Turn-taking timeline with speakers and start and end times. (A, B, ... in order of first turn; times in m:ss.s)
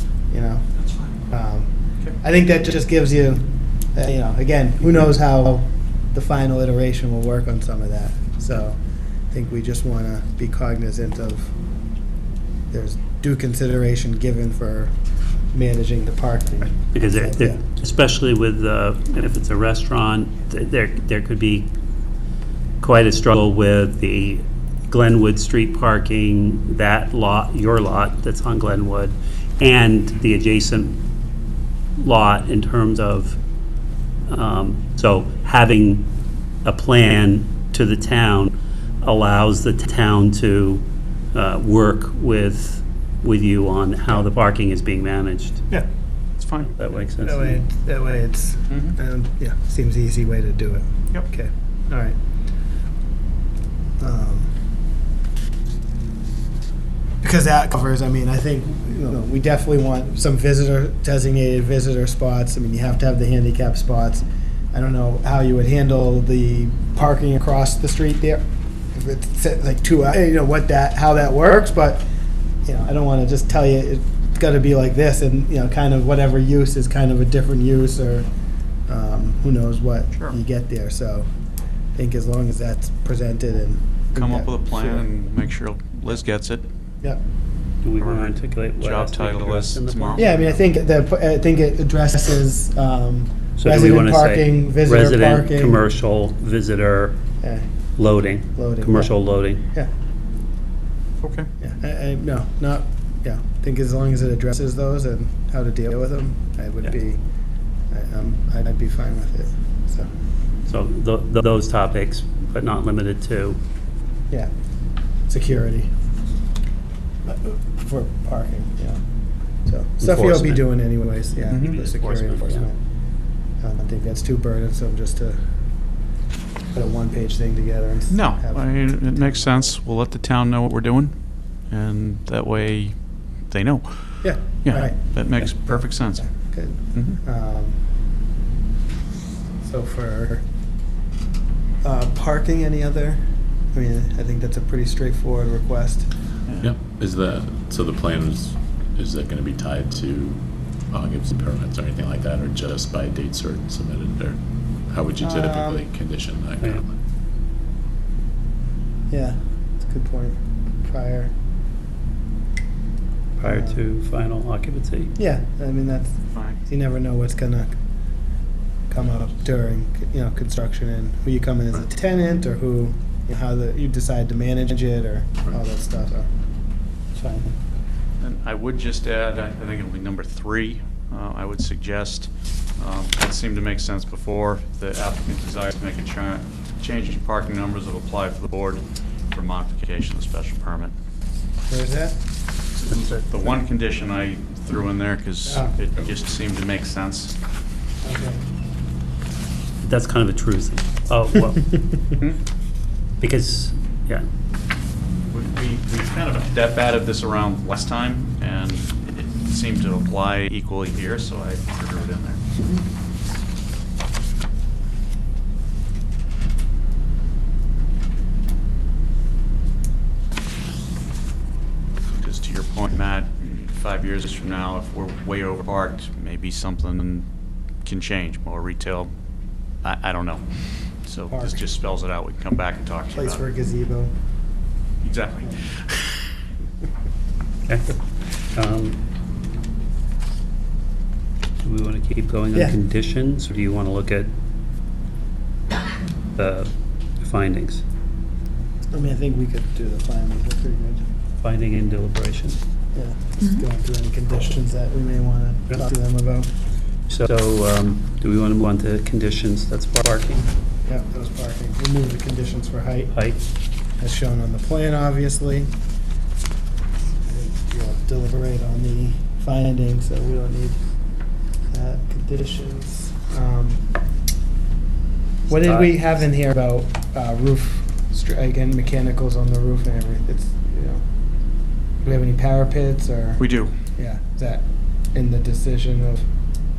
0:00.3-0:00.6 A
0:01.3-0:08.8 A
0:09.3-0:11.5 A
0:12.7-0:14.9 A
0:15.5-0:17.6 A
0:16.9-0:21.7 B
0:22.8-0:31.0 B
0:32.0-0:33.4 B
0:34.3-0:36.1 B
0:36.6-0:45.6 B
0:46.4-0:46.8 C
0:46.8-0:47.6 B
0:47.2-0:52.2 A
0:48.7-0:49.0 C
0:54.0-0:54.5 A
0:57.2-1:12.0 A
1:12.6-1:18.3 A
1:18.9-1:21.3 A
1:20.1-1:20.4 C
1:21.9-1:25.1 A
1:24.1-1:26.7 C
1:27.8-1:30.6 B
1:28.0-1:30.3 C
1:30.2-1:35.8 A
1:33.6-1:37.2 B
1:37.4-1:37.6 A
1:38.0-1:39.6 B
1:38.5-1:39.1 A
1:41.2-1:41.5 C
1:41.6-1:47.2 A
1:47.9-1:50.1 A
1:50.7-1:53.6 B
1:55.3-1:55.9 A
1:57.2-1:59.0 A
1:59.6-2:02.8 A
2:00.0-2:00.7 B
2:01.5-2:02.6 B
2:01.5-2:01.7 C
2:03.6-2:05.4 A
2:06.7-2:09.8 A
2:08.1-2:11.1 C
2:11.7-2:12.9 C
2:13.5-2:16.3 C
2:14.2-2:17.8 A
2:16.9-2:17.2 C
2:19.6-2:20.4 A
2:21.8-2:26.1 A
2:26.6-2:34.4 D
2:34.9-2:37.0 D
2:35.2-2:35.8 A
2:39.1-2:41.3 A
2:43.4-2:43.8 A
2:43.4-2:45.1 B
2:45.2-2:47.7 A
2:46.3-2:46.6 C
2:48.9-2:56.3 A
2:57.1-2:57.6 A
2:58.2-3:10.9 C
3:11.7-3:12.2 A
3:12.7-3:17.3 C
3:15.5-3:15.8 A
3:18.0-3:18.4 A
3:19.8-3:22.2 B
3:23.2-3:24.2 B
3:25.3-3:32.6 C
3:42.2-3:47.3 C
3:47.8-3:49.1 C
3:49.8-3:50.4 C
3:51.0-3:53.4 C
3:51.3-3:51.6 A
3:53.1-3:54.1 A
3:55.0-3:56.2 C
3:57.7-3:58.0 B
3:58.5-3:59.0 B
4:01.6-4:04.3 B
4:06.4-4:07.8 B
4:08.9-4:11.0 A
4:11.4-4:12.6 B
4:12.9-4:16.5 A
4:17.1-4:20.5 B
4:20.8-4:23.2 A
4:24.0-4:25.7 A
4:27.2-4:30.8 A
4:31.7-4:33.8 A
4:35.5-4:41.0 A
4:35.6-4:35.9 B
4:42.0-4:43.4 A
4:43.4-4:43.7 C
4:44.0-4:46.2 A